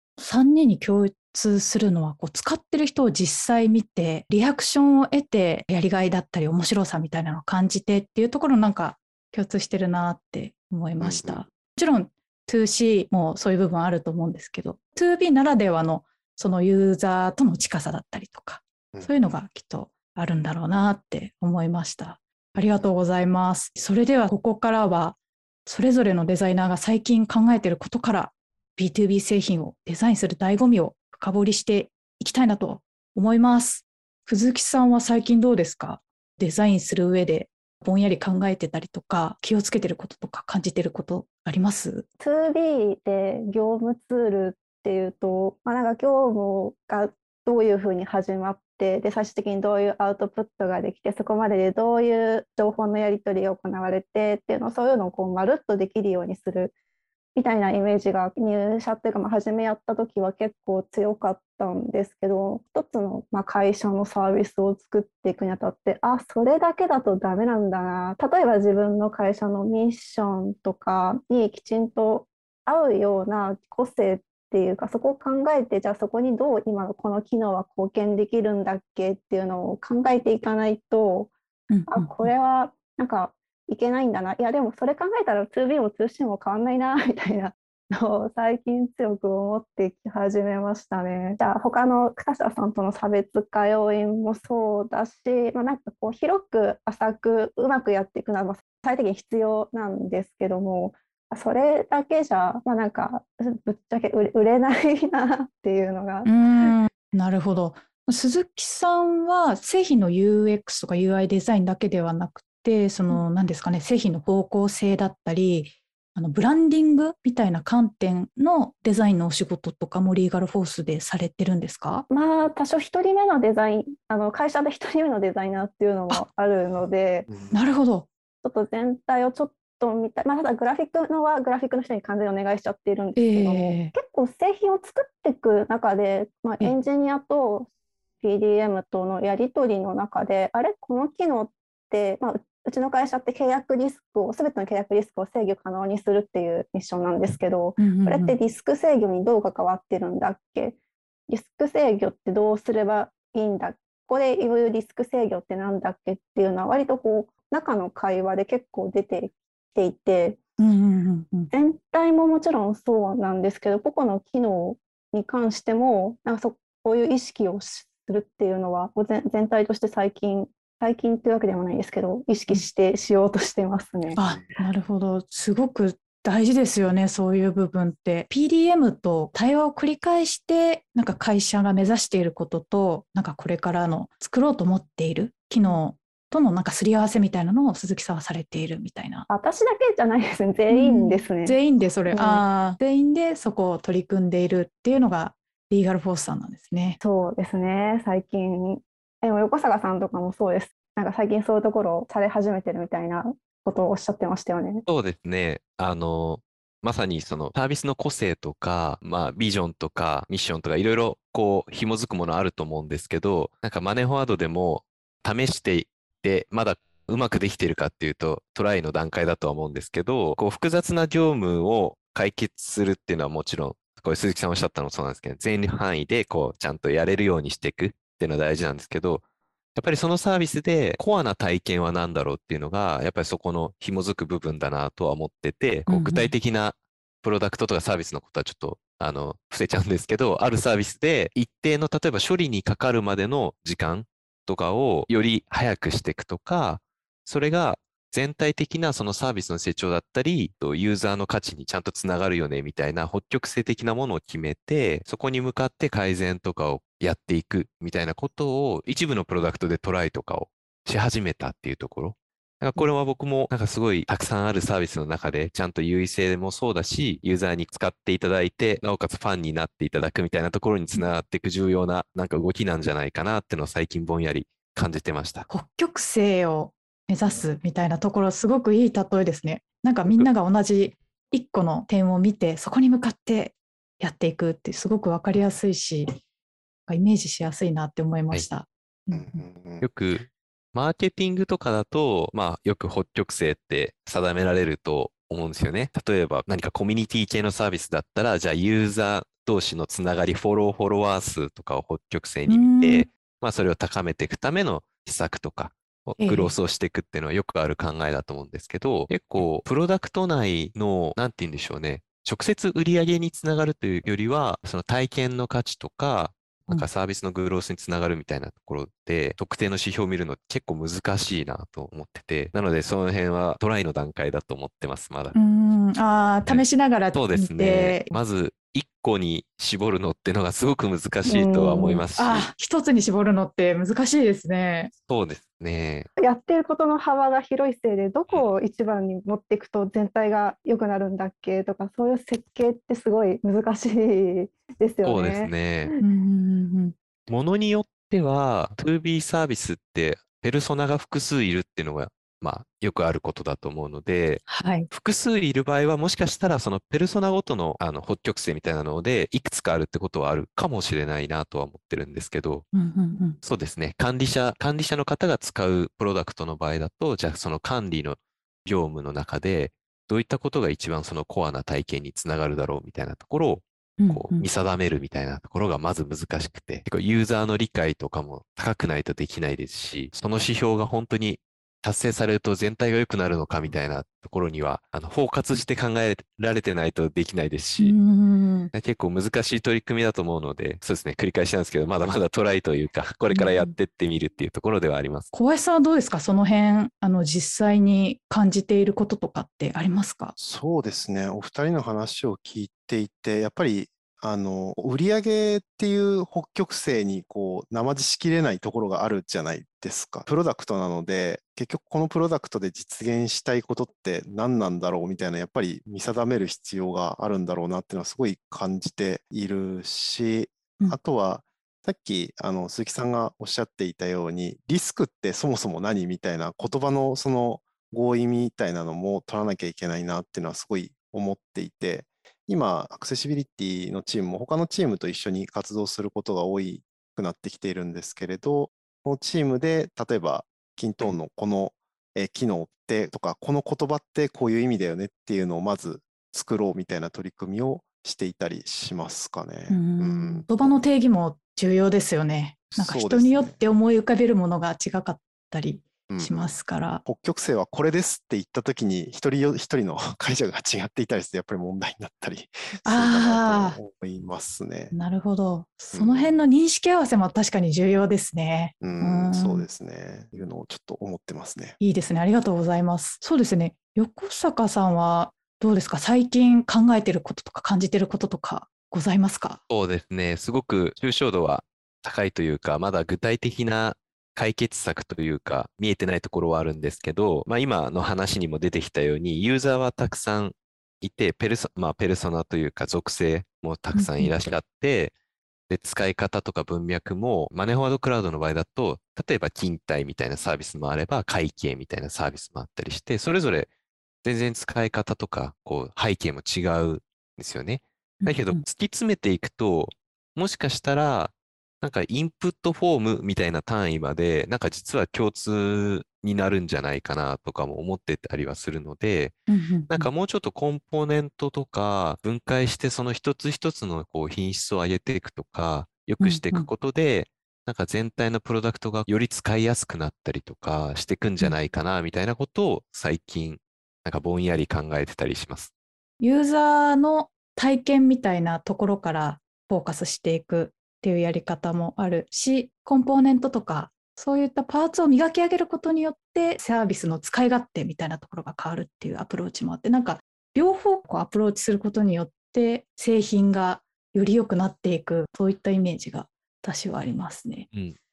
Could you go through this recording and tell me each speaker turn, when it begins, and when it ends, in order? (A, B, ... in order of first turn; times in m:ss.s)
0:00.2-0:42.0 A
0:11.0-0:11.4 B
0:42.2-0:56.7 C
0:57.3-1:21.3 C
1:21.7-1:22.3 A
1:21.9-1:46.7 C
1:46.2-2:02.0 A
2:02.1-2:07.3 C
2:07.3-2:07.5 B
2:07.5-2:08.1 A
2:08.4-2:30.8 C
2:13.2-2:13.9 A
2:27.8-2:28.3 A
2:31.3-2:40.4 C
2:40.6-2:41.5 A
2:41.5-2:54.2 C
2:54.2-3:09.3 A
3:09.3-3:11.6 C
3:10.7-3:17.0 A
3:12.1-3:12.4 C
3:17.0-3:24.8 C
3:24.9-3:49.2 D
3:49.7-4:35.5 D
3:55.9-3:56.3 A
4:35.5-4:46.1 A
4:46.9-4:49.4 A
4:49.1-4:49.8 B
4:49.8-5:25.4 D
5:02.5-5:03.1 A
5:06.2-5:06.5 A
5:25.3-5:28.1 A
5:26.4-5:32.5 D
5:31.2-5:32.0 C
5:32.2-5:34.9 A
5:35.1-5:36.1 D
5:36.2-5:46.0 C
5:45.0-5:45.9 D
5:46.0-5:46.9 A
5:47.3-6:02.6 D
5:54.5-5:54.9 A
6:02.7-6:03.4 A
6:03.4-6:27.9 D
6:14.0-6:14.5 A
6:27.8-6:28.7 A
6:28.7-6:35.3 D
6:33.3-6:33.7 A
6:35.3-6:40.3 A
6:40.4-7:30.8 B
7:29.7-7:37.0 A
7:32.7-7:33.6 B
7:36.1-7:44.9 B
7:42.8-7:43.8 A
7:44.9-7:49.7 A
7:45.9-7:46.4 B
7:48.8-7:51.8 B
7:51.8-7:59.6 A
7:59.7-8:15.1 D
8:13.9-8:14.3 A
8:15.7-8:23.7 D
8:24.2-8:39.4 D
8:28.2-8:28.6 A
8:39.5-8:40.1 A
8:39.9-8:55.7 D
8:46.2-8:46.7 A
8:56.2-9:17.7 A
9:17.7-9:18.0 D